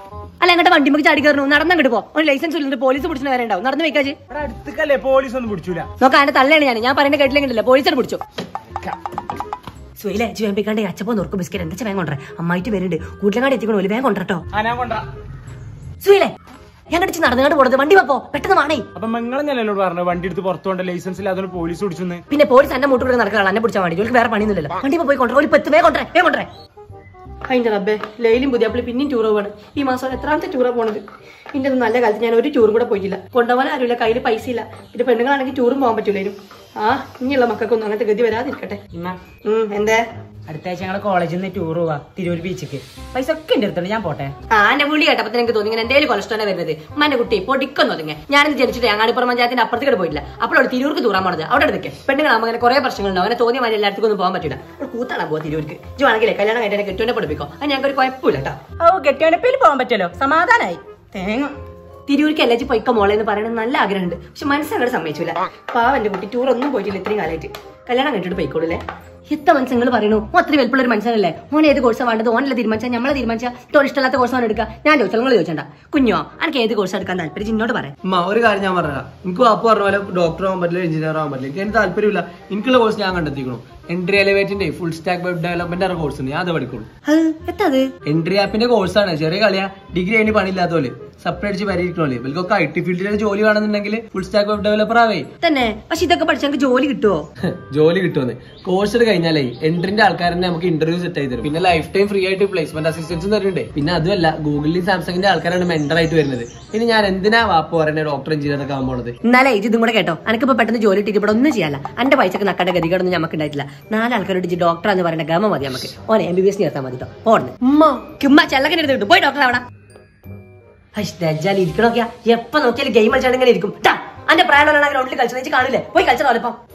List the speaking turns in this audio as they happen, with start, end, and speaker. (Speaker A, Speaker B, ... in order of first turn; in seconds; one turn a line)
Speaker A: 0.4-4.2
Speaker B: 4.3-5.9
Speaker A: 6.0-8.2
Speaker A: 10.0-14.4
Speaker B: 14.5-15.1
Speaker A: 16.0-16.3
Speaker A: 16.9-18.9
Speaker B: 18.9-22.2
Speaker A: 22.3-26.5
Speaker A: 27.5-31.0
Speaker A: 31.5-38.8
Speaker A: 39.5-40.0
Speaker C: 40.5-44.3
Speaker A: 44.5-58.6
Speaker C: 58.8-61.5
Speaker A: 62.1-77.9
Speaker D: 78.0-86.9
Speaker A: 87.1-87.9
Speaker D: 88.0-95.3
Speaker A: 95.4-97.3
Speaker D: 97.4-109.2
Speaker A: 109.2-119.6
Speaker A: 121.0-126.6